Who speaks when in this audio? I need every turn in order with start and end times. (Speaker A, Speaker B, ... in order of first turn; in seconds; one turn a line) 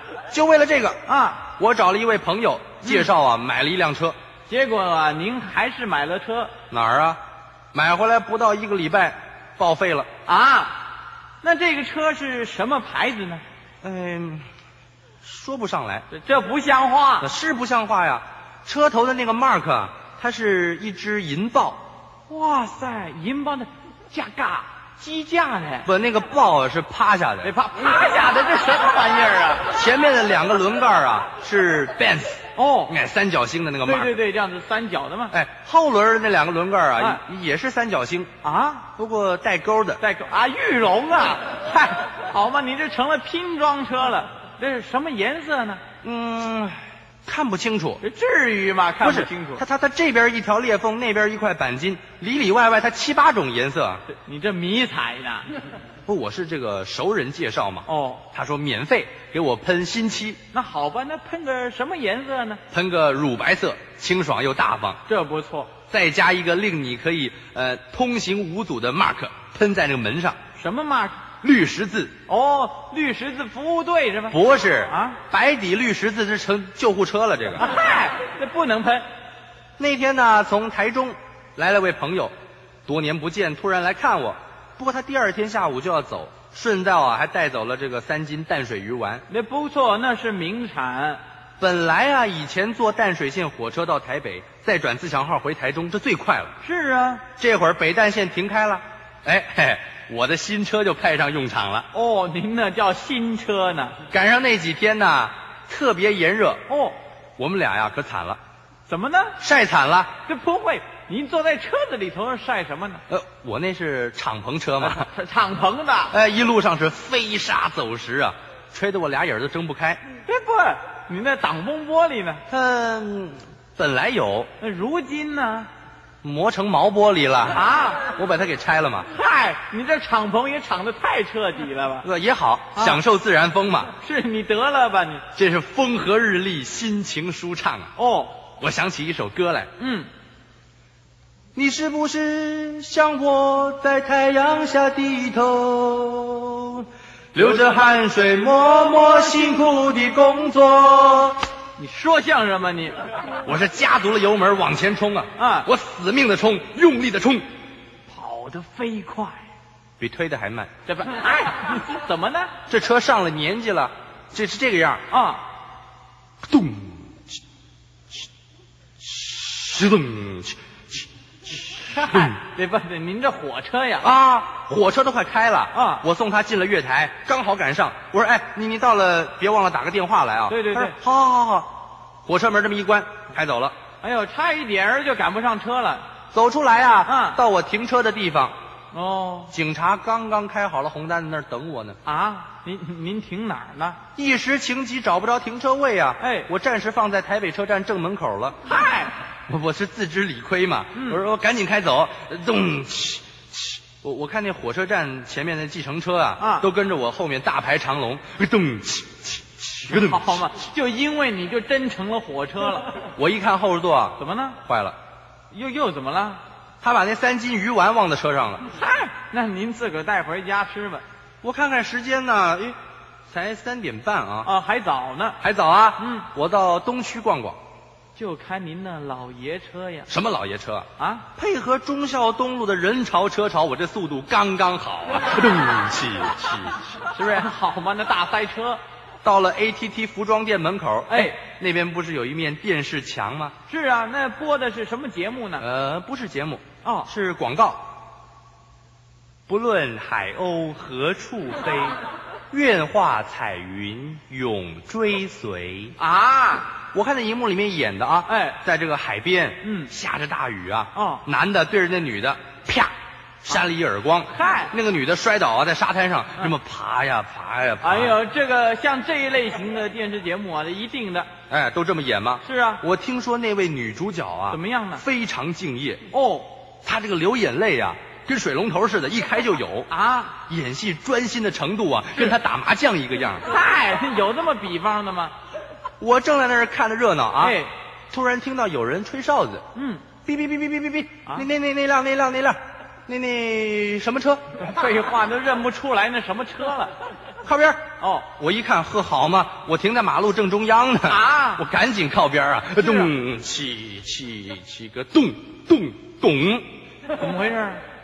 Speaker A: 0.3-1.0
Speaker B: 1.1-1.5
Speaker A: 1.6-4.2
Speaker B: 2.8-3.1
Speaker B: 4.5-6.5
Speaker A: 6.7-7.2
Speaker A: 7.7-10.1
Speaker B: 10.2-10.8
Speaker B: 11.4-13.4
Speaker A: 13.8-14.4
Speaker A: 15.2-16.1
Speaker B: 16.1-17.3
Speaker A: 17.2-21.8
Speaker B: 22.3-25.9
Speaker A: 25.9-27.5
Speaker B: 27.4-29.7
Speaker A: 29.7-34.1
Speaker B: 32.6-32.9
Speaker B: 33.8-35.3
Speaker A: 35.3-38.3
Speaker B: 38.4-38.9
Speaker A: 39.0-40.0
Speaker B: 40.0-45.8
Speaker A: 46.0-48.0
Speaker B: 48.0-49.6
Speaker A: 49.0-54.0
Speaker B: 54.1-55.5
Speaker A: 56.1-60.4
Speaker B: 57.9-58.2
Speaker B: 60.5-62.6
Speaker A: 62.7-65.0
Speaker B: 65.1-65.7
Speaker A: 65.9-70.4
Speaker B: 70.5-71.2
Speaker A: 71.4-72.1
Speaker B: 72.3-75.2
Speaker A: 74.3-77.7
Speaker B: 77.6-79.1
Speaker A: 79.8-82.3
Speaker A: 82.8-89.2
Speaker B: 89.3-91.2
Speaker A: 91.6-96.5
Speaker B: 96.6-97.2
Speaker A: 97.4-101.9
Speaker B: 101.9-104.0
Speaker A: 104.1-106.6
Speaker B: 106.7-107.0
Speaker A: 107.4-108.4
Speaker B: 108.9-109.4
Speaker A: 109.4-110.1
Speaker B: 110.2-113.0
Speaker A: 113.1-115.1
Speaker B: 114.8-116.1
Speaker A: 116.1-120.0
Speaker B: 120.2-122.4
Speaker A: 122.5-124.5
Speaker B: 124.6-125.7
Speaker A: 126.2-129.1
Speaker B: 127.5-128.0
Speaker B: 129.1-132.1
Speaker A: 132.0-133.9
Speaker B: 132.7-133.0
Speaker B: 134.0-135.2
Speaker A: 135.3-137.9
Speaker B: 137.9-138.4
Speaker A: 138.6-139.7
Speaker B: 139.8-140.1
Speaker A: 141.6-151.4
Speaker B: 151.8-153.0
Speaker A: 153.4-157.4
Speaker B: 155.4-155.7
Speaker B: 158.1-159.4
Speaker A: 160.0-160.7
Speaker B: 160.9-162.5
Speaker A: 162.7-165.0
Speaker B: 165.1-165.4
Speaker A: 166.5-167.2
Speaker A: 169.0-172.3
Speaker B: 171.9-174.1
Speaker A: 174.0-181.7
Speaker B: 175.7-176.0
Speaker B: 180.5-180.9
Speaker A: 182.2-183.7
Speaker B: 184.0-186.1
Speaker A: 186.3-188.5
Speaker B: 187.1-187.4
Speaker B: 188.9-189.5
Speaker A: 189.5-192.0
Speaker B: 192.1-194.0
Speaker A: 194.2-198.6
Speaker B: 196.2-196.5
Speaker B: 198.7-199.1
Speaker A: 199.5-210.5
Speaker B: 200.9-201.2
Speaker B: 206.4-206.7
Speaker B: 209.9-213.0
Speaker A: 213.2-214.9
Speaker B: 214.2-214.6
Speaker B: 215.5-216.4
Speaker A: 216.8-218.7
Speaker B: 218.7-221.0
Speaker A: 221.4-222.8
Speaker A: 223.3-224.5
Speaker B: 224.4-225.4
Speaker A: 225.4-227.6
Speaker B: 226.0-226.3
Speaker B: 228.2-230.1
Speaker A: 230.1-236.9
Speaker B: 231.0-231.2
Speaker B: 237.1-238.8
Speaker A: 239.2-243.6
Speaker B: 241.1-241.4
Speaker B: 243.7-245.6
Speaker A: 245.6-247.8
Speaker B: 246.8-247.1
Speaker A: 249.5-252.0
Speaker A: 252.5-255.9
Speaker B: 256.0-256.7
Speaker A: 256.9-268.2
Speaker B: 258.3-258.6
Speaker B: 259.6-259.9
Speaker B: 260.9-261.2
Speaker B: 264.3-264.7
Speaker B: 267.8-271.3
Speaker A: 271.5-276.1
Speaker B: 272.4-272.8
Speaker B: 274.5-275.0
Speaker B: 276.1-276.6
Speaker A: 276.8-279.9
Speaker B: 279.9-280.3
Speaker A: 280.5-283.4
Speaker B: 283.4-285.3
Speaker A: 286.0-289.6
Speaker B: 287.4-287.7
Speaker B: 289.7-290.1
Speaker A: 290.2-294.4
Speaker B: 294.6-296.9
Speaker A: 297.4-306.7
Speaker B: 298.0-298.3
Speaker B: 301.1-301.6
Speaker B: 302.8-303.1
Speaker B: 307.1-307.8